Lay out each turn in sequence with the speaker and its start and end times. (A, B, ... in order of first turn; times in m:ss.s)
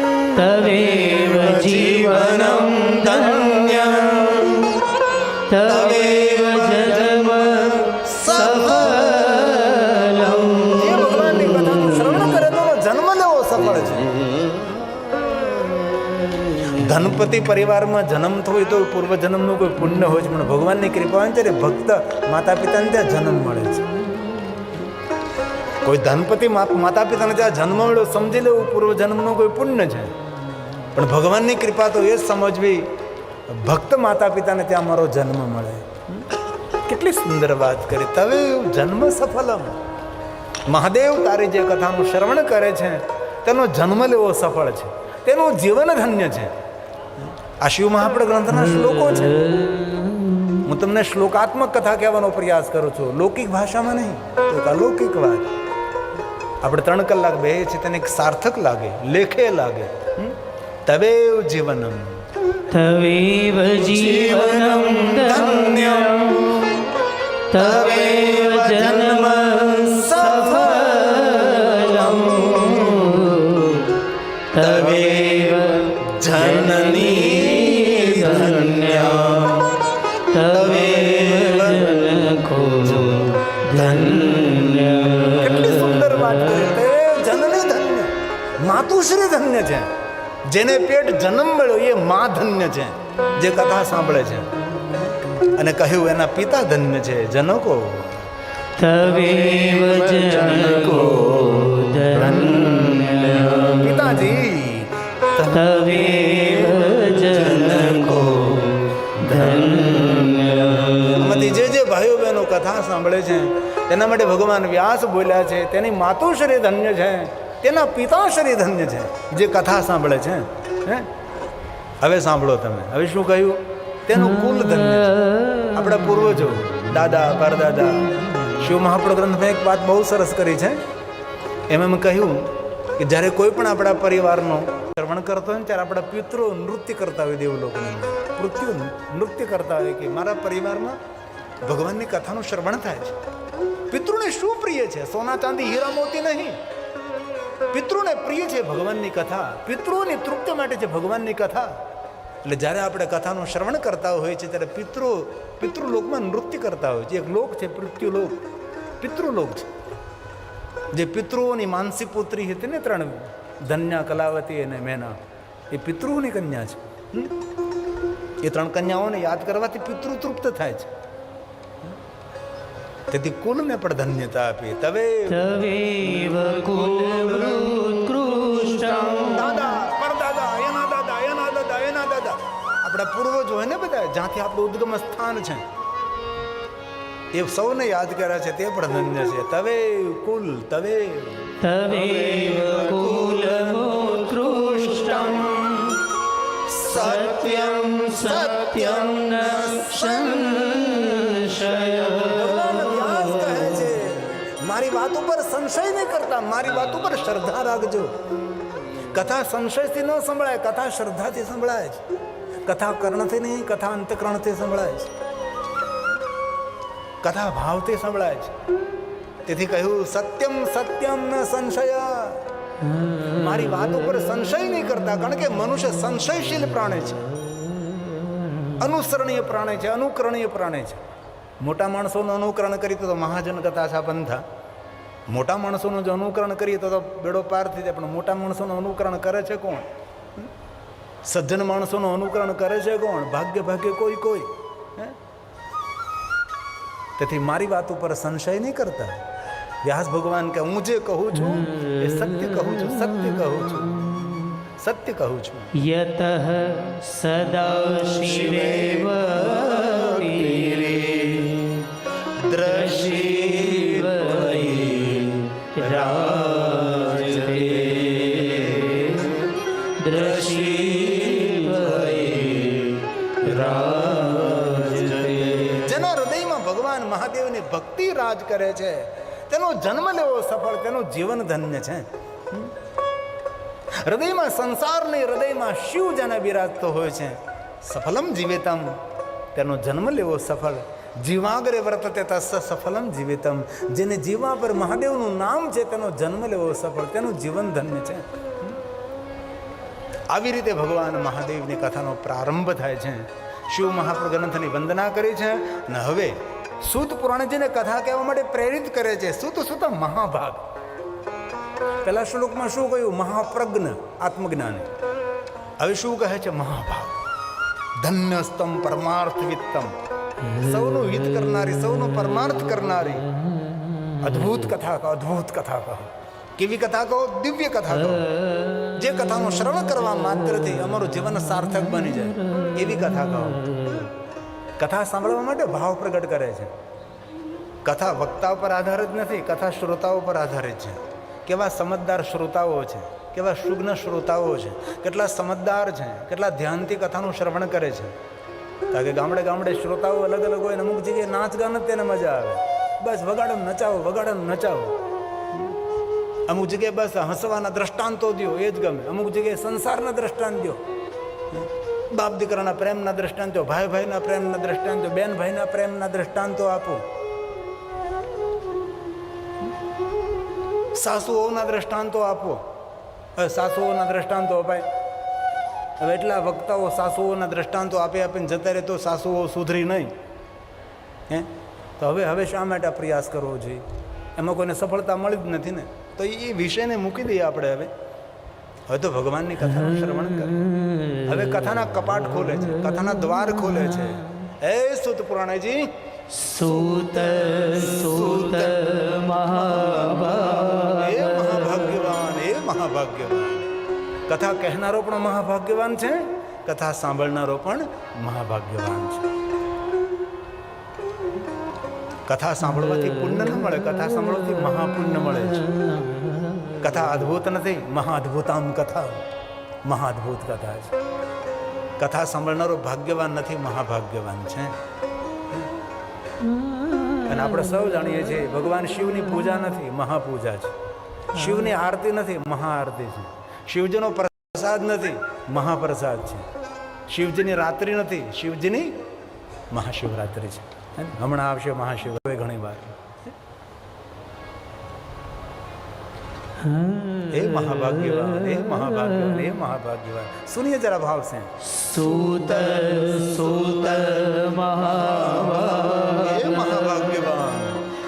0:00.3-0:04.8 A
0:02.2-0:04.4 B
0:05.5-0:11.8 A
0:05.6-0:07.0 B
0:08.0-0:09.2 B
0:10.7-0:14.5 B
0:16.5-0:23.9 B
0:25.8-0:30.1 B
0:30.9-0:32.8 B
0:33.5-0:36.3 B
0:36.9-0:39.8 B
0:40.7-0:46.5 B
0:47.6-0:49.6 B
0:48.7-0:50.7 A
0:50.6-0:55.5 B
0:56.6-1:02.1 B
1:02.7-1:06.7 A
1:04.2-1:06.9 B
1:07.5-1:13.1 B
1:07.5-1:14.0 A
1:14.5-1:19.8 A
1:14.5-1:19.6 B
1:20.3-1:26.4 A
1:20.4-1:22.0 B
1:23.7-1:24.4 B
1:25.3-1:29.9 B
1:30.5-1:38.2 B
1:38.8-1:44.1 A
1:43.8-1:45.8 B
1:45.5-1:51.5 A
1:51.1-2:01.1 B
2:02.0-2:10.8 B
2:11.7-2:21.0 B
2:21.6-2:23.2 B
2:23.9-2:26.6 B
2:27.7-2:31.7 B
2:32.4-2:38.4 B
2:39.0-2:39.7 B
2:40.9-2:45.2 B
2:45.7-2:47.3 B
2:48.4-2:50.9 B
2:53.1-2:55.5 B
2:55.3-2:59.8 A
2:59.3-3:05.6 B
3:07.3-3:11.6 B
3:11.6-3:16.1 A
3:16.7-3:23.7 A
3:16.8-3:20.5 B
3:22.3-3:28.1 B
3:29.0-3:32.0 B
3:32.6-3:35.1 B
3:37.2-3:38.5 B
3:39.5-3:42.4 B
3:43.1-3:47.4 B
3:48.7-3:51.0 B
3:51.6-3:54.4 B
3:55.3-4:00.5 B
4:01.3-4:05.2 B
4:07.2-4:09.2 B
4:09.8-4:15.7 B
4:11.6-4:13.1 A
4:15.8-4:36.0 A
4:18.6-4:19.2 B
4:35.7-4:42.7 B
4:44.0-4:49.0 B
4:49.5-4:58.8 B
5:00.3-5:10.7 B
5:12.0-5:14.9 B
5:15.8-5:17.1 B
5:18.0-5:23.3 B
5:24.2-5:34.1 B
5:34.8-5:36.7 B
5:37.8-5:48.1 B
5:48.9-5:55.0 B
5:56.5-6:00.8 B
6:01.5-6:07.0 B
6:11.0-6:12.6 B
6:13.4-6:14.9 B
6:16.0-6:20.1 B
6:21.3-6:23.8 B
6:24.4-6:27.9 B
6:28.9-6:30.6 B
6:30.8-6:31.2 A
6:31.2-6:35.9 B
6:36.3-6:41.7 A
6:40.9-6:43.7 B
6:44.3-6:49.3 B
6:52.3-6:56.0 B
6:56.7-6:59.3 B
6:59.8-7:01.0 B
7:02.0-7:04.8 B
7:07.2-7:10.8 B
7:11.3-7:16.4 B
7:17.1-7:19.0 B
7:19.7-7:23.0 B
7:26.6-7:28.6 A
7:27.3-7:31.5 B
7:31.6-7:36.8 A
7:36.1-7:37.8 B